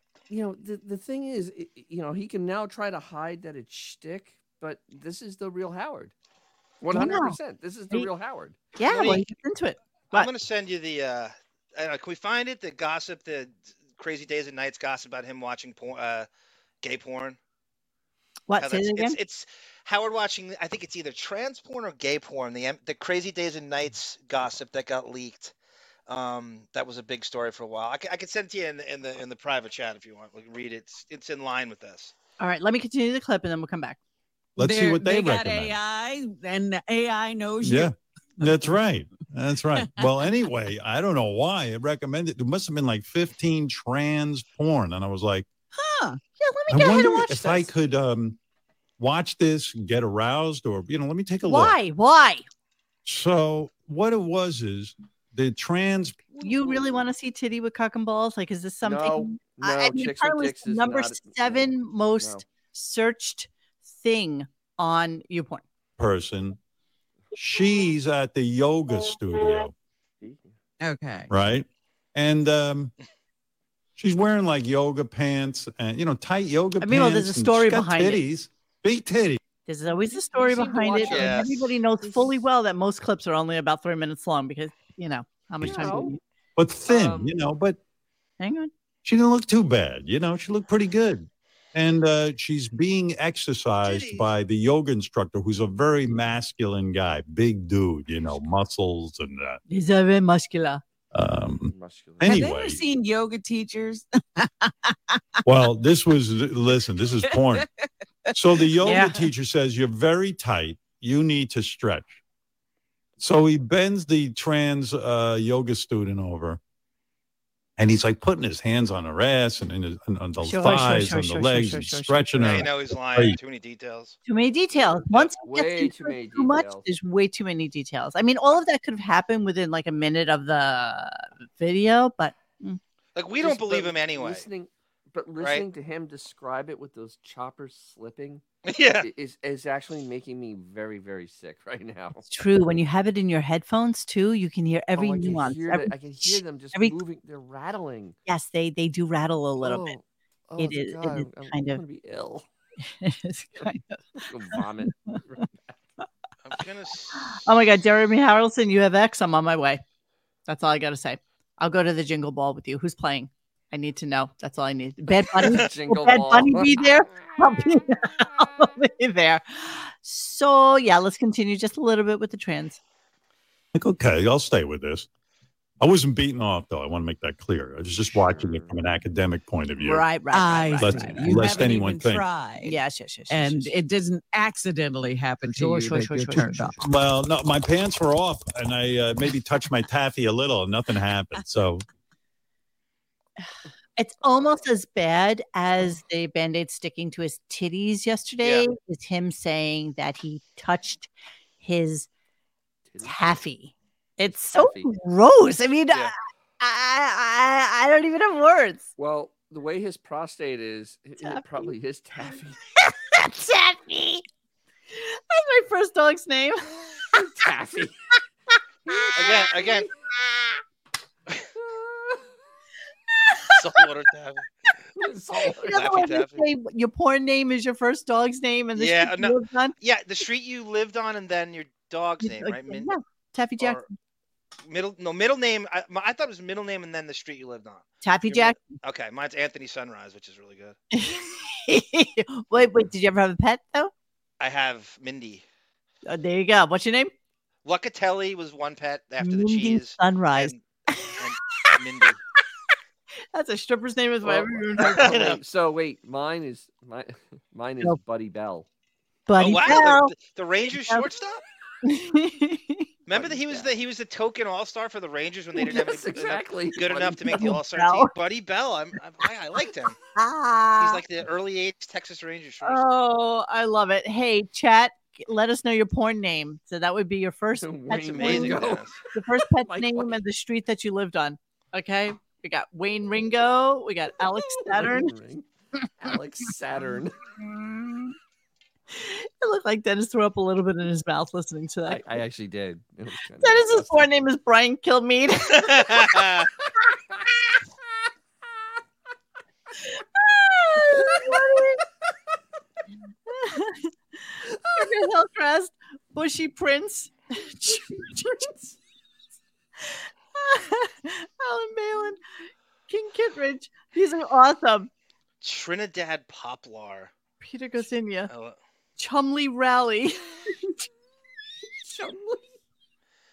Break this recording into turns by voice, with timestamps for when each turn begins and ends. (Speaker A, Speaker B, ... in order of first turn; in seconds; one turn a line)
Speaker A: 0.3-6.1
Speaker A: 6.8-8.6
Speaker B: 6.9-7.4
Speaker B: 8.8-10.3
Speaker C: 8.8-9.2
Speaker C: 10.1-16.3
Speaker C: 16.8-17.4
Speaker B: 18.5-19.2
Speaker C: 18.6-25.5
Speaker C: 26.1-32.1
Speaker B: 32.4-34.0
Speaker D: 34.6-35.8
Speaker E: 34.6-38.7
Speaker D: 37.6-45.5
Speaker E: 45.8-46.2
Speaker B: 46.4-47.7
Speaker D: 46.7-48.4
Speaker D: 49.0-51.8
Speaker B: 51.5-52.4
Speaker D: 53.0-56.2
Speaker A: 56.3-57.0
Speaker B: 56.4-65.6
Speaker A: 58.8-62.4
Speaker D: 66.0-66.6
Speaker D: 67.3-69.7
Speaker A: 70.2-70.5
Speaker E: 70.8-71.3
Speaker D: 71.3-72.9
Speaker D: 74.0-79.4
Speaker B: 76.8-78.2
Speaker B: 79.7-86.2
Speaker A: 79.9-82.3
Speaker C: 81.1-81.5
Speaker D: 85.6-85.9
Speaker A: 85.7-86.1
Speaker D: 86.5-87.8
Speaker A: 86.9-87.3
Speaker B: 88.4-88.7
Speaker D: 89.0-99.6
Speaker B: 99.7-100.8
Speaker D: 101.1-102.8
Speaker A: 101.7-102.4
Speaker E: 102.2-105.0
Speaker D: 105.4-107.7
Speaker D: 108.3-112.2
Speaker E: 108.8-109.1
Speaker B: 108.8-109.1
Speaker D: 113.2-116.6
Speaker D: 117.8-123.4
Speaker B: 120.4-122.6
Speaker C: 122.4-124.2
Speaker B: 124.2-132.8
Speaker A: 125.4-126.8
Speaker C: 133.1-134.4
Speaker A: 133.4-138.4
Speaker C: 138.7-139.1
Speaker A: 139.0-142.2
Speaker B: 142.2-146.9
Speaker A: 144.9-148.2
Speaker B: 148.2-149.9
Speaker A: 149.6-152.4
Speaker B: 150.6-151.8
Speaker B: 153.0-153.9
Speaker A: 154.2-155.7
Speaker C: 156.4-157.1
Speaker B: 157.1-159.8
Speaker B: 160.5-172.8
Speaker A: 165.5-167.3
Speaker D: 173.7-175.1
Speaker D: 175.8-180.0
Speaker A: 178.2-178.8
Speaker B: 179.8-181.6
Speaker E: 180.3-182.8
Speaker D: 180.8-182.2
Speaker B: 182.6-183.7
Speaker E: 183.3-186.8
Speaker B: 185.5-186.7
Speaker D: 186.8-191.8
Speaker B: 194.0-201.1
Speaker B: 201.6-202.1
Speaker A: 202.9-203.4
Speaker B: 203.0-208.9
Speaker A: 204.2-204.9
Speaker A: 209.0-212.6
Speaker B: 211.2-211.7
Speaker B: 212.8-214.2
Speaker B: 214.9-216.8
Speaker A: 217.1-217.9
Speaker A: 218.9-219.9
Speaker C: 219.1-219.9
Speaker A: 221.6-222.2
Speaker B: 223.3-223.6
Speaker C: 223.5-224.4
Speaker A: 225.0-225.9
Speaker B: 225.6-229.7
Speaker C: 225.7-226.4
Speaker C: 228.8-232.9
Speaker B: 232.2-233.8
Speaker C: 234.7-240.8
Speaker B: 238.0-238.7
Speaker B: 240.9-243.9
Speaker C: 244.4-245.4
Speaker B: 246.1-247.1
Speaker C: 247.6-250.6
Speaker B: 249.2-251.7
Speaker C: 251.2-252.2
Speaker B: 253.3-255.2
Speaker A: 254.2-258.6
Speaker C: 254.8-255.4
Speaker B: 259.3-260.1
Speaker C: 259.4-261.4
Speaker B: 260.7-261.1
Speaker B: 261.8-262.9
Speaker C: 263.1-269.9
Speaker A: 263.1-263.7
Speaker A: 265.6-267.4
Speaker B: 267.3-268.1
Speaker B: 270.1-271.0
Speaker C: 270.8-272.8
Speaker B: 272.6-278.6
Speaker A: 277.6-280.1
Speaker C: 278.1-279.0
Speaker B: 279.1-285.1
Speaker A: 284.2-285.4
Speaker A: 286.0-287.1
Speaker B: 287.4-288.1
Speaker B: 288.9-292.0
Speaker A: 291.9-294.1
Speaker B: 293.4-296.1
Speaker C: 295.6-296.5
Speaker B: 300.2-301.8
Speaker A: 301.0-301.4
Speaker B: 303.3-303.9
Speaker A: 304.6-304.9
Speaker B: 304.7-308.5
Speaker A: 307.6-308.7
Speaker B: 310.4-312.2
Speaker B: 312.9-314.9
Speaker C: 315.4-317.1
Speaker B: 317.4-318.3
Speaker C: 318.3-318.6
Speaker B: 319.0-320.2
Speaker A: 321.8-322.5